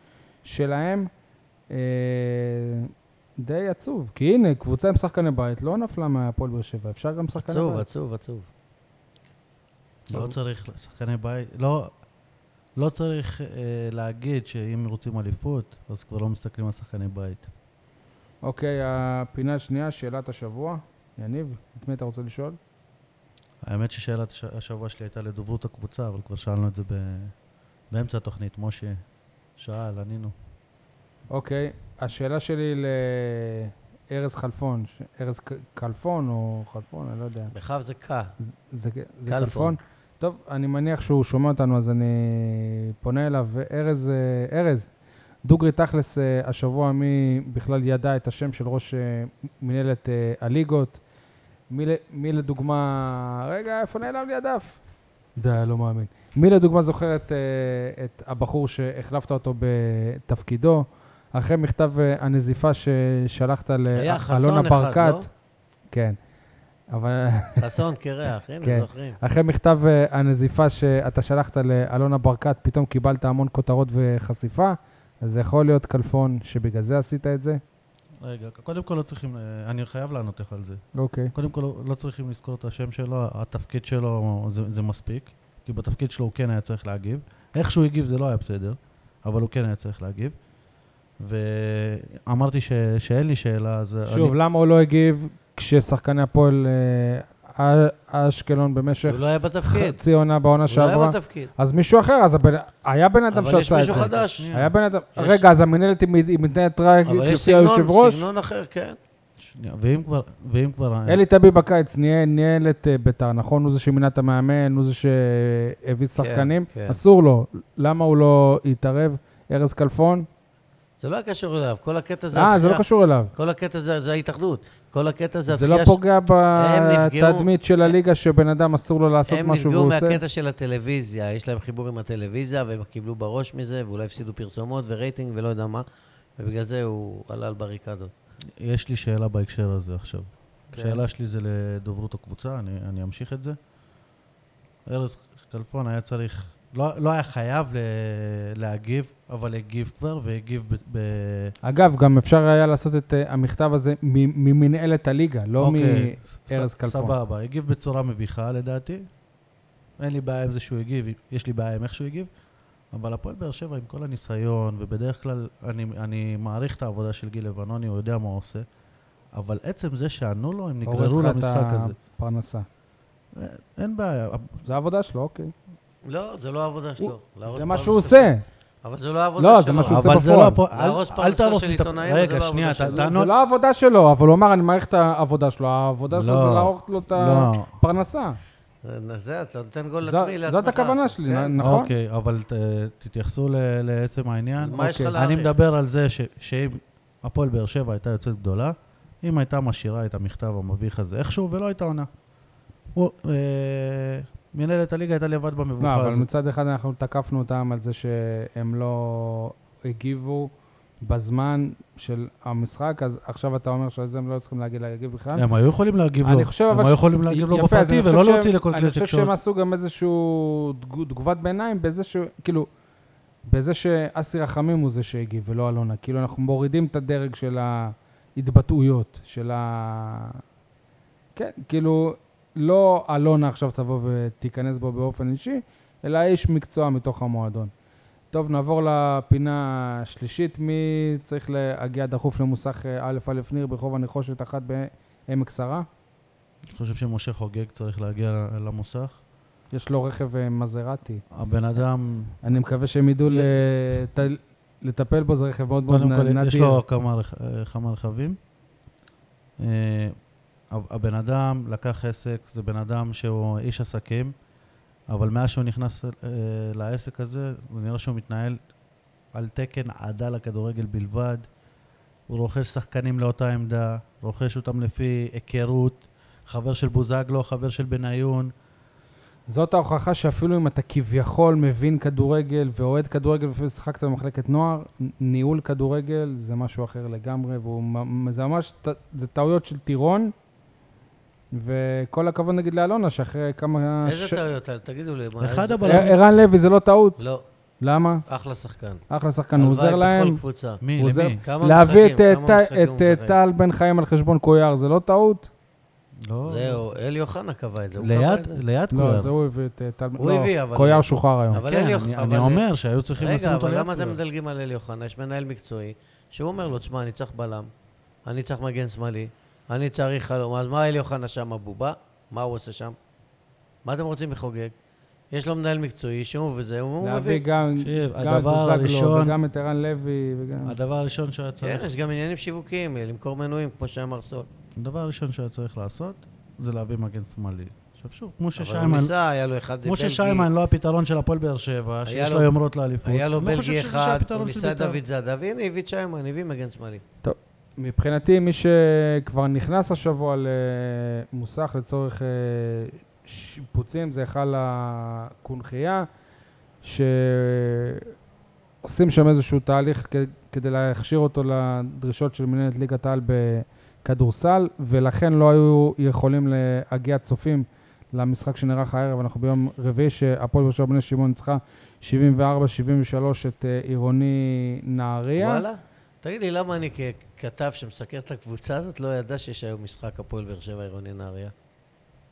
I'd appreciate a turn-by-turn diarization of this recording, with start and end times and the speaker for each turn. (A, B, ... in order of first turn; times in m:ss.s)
0:00.4-0:01.1 A
0:01.7-0:07.9 A
0:07.4-0:08.5 B
0:10.1-0:11.9 C
0:10.1-0:10.4 B
0:12.8-0:17.5 C
0:18.4-0:22.6 A
0:23.6-0:27.4 C
0:27.9-0:29.0 C
0:29.6-0:30.3 C
0:31.3-0:37.5 A
0:37.5-0:38.3 B
0:38.7-0:44.9 A
0:39.3-0:39.8 B
0:45.4-0:51.0 A
0:51.7-0:54.8 A
0:55.4-1:05.3 A
1:04.0-1:05.2 B
1:05.9-1:06.2 A
1:06.9-1:07.6 A
1:07.6-1:09.2 B
1:08.6-1:17.6 A
1:18.2-1:30.4 C
1:21.0-1:21.3 A
1:31.2-1:34.4 C
1:34.1-1:48.3 A
1:39.1-1:40.0 B
1:40.7-1:41.5 B
1:43.3-1:44.5 B
1:43.8-1:44.7 C
1:45.2-1:45.4 B
1:47.1-1:49.0 B
1:49.4-1:51.2 C
1:51.1-2:00.3 A
1:56.2-1:57.0 B
2:01.0-2:06.0 B
2:02.3-2:03.3 A
2:05.5-2:10.2 A
2:06.6-2:08.0 B
2:09.3-2:15.8 B
2:16.4-2:18.1 B
2:18.6-2:23.6 C
2:20.7-2:21.0 A
2:24.9-2:31.5 C
2:31.6-2:37.2 A
2:35.6-2:39.1 C
2:40.0-2:42.3 C
2:42.9-2:48.7 C
2:49.3-2:52.0 C
2:50.8-2:52.7 A
2:53.4-2:54.6 C
2:54.7-2:55.5 A
2:56.1-2:58.3 B
2:57.0-2:58.4 A
2:58.8-3:03.1 B
2:59.4-3:00.6 A
2:59.9-3:03.3 C
3:03.1-3:08.4 A
3:06.1-3:07.7 C
3:08.8-3:11.6 B
3:10.0-3:11.9 A
3:11.6-3:22.1 C
3:14.6-3:15.5 B
3:14.7-3:15.1 A
3:23.0-3:26.3 C
3:25.8-3:30.5 A
3:31.0-3:35.4 A
3:35.4-3:39.3 C
3:36.2-3:42.7 A
3:43.5-3:50.4 A
3:51.4-3:57.7 A
3:58.3-4:05.9 A
4:06.7-4:09.2 C
4:09.7-4:11.2 A
4:11.4-4:12.4 C
4:12.4-4:16.8 A
4:15.9-4:18.4 C
4:19.6-4:20.2 C
4:20.7-4:24.3 C
4:25.1-4:28.6 C
4:29.3-4:31.5 C
4:32.3-4:38.5 C
4:39.5-4:50.3 A
4:51.5-4:54.4 A
4:54.0-4:56.1 B
4:55.4-4:56.2 C
4:55.9-4:57.2 A
4:57.2-4:57.4 B
4:57.8-4:58.2 A
4:58.3-4:59.0 B
4:59.1-5:00.4 A
4:59.6-5:00.8 B
5:00.8-5:01.4 C
5:01.0-5:05.5 A
5:01.4-5:03.4 B
5:06.3-5:06.8 C
5:06.5-5:08.6 B
5:08.0-5:09.3 C
5:08.9-5:11.6 A
5:10.2-5:12.6 B
5:11.6-5:14.2 C
5:13.2-5:17.7 B
5:18.3-5:23.0 B
5:23.8-5:24.7 B
5:25.3-5:27.4 B
5:27.0-5:30.8 A
5:27.8-5:29.3 C
5:30.7-5:31.9 C
5:31.6-5:34.5 B
5:34.8-5:39.1 C
5:38.6-5:40.5 B
5:39.9-5:45.0 C
5:42.1-5:42.5 B
5:43.0-5:47.0 B
5:47.2-5:56.1 A
5:56.8-5:58.1 A
5:58.8-6:15.6 A
6:15.4-6:21.5 B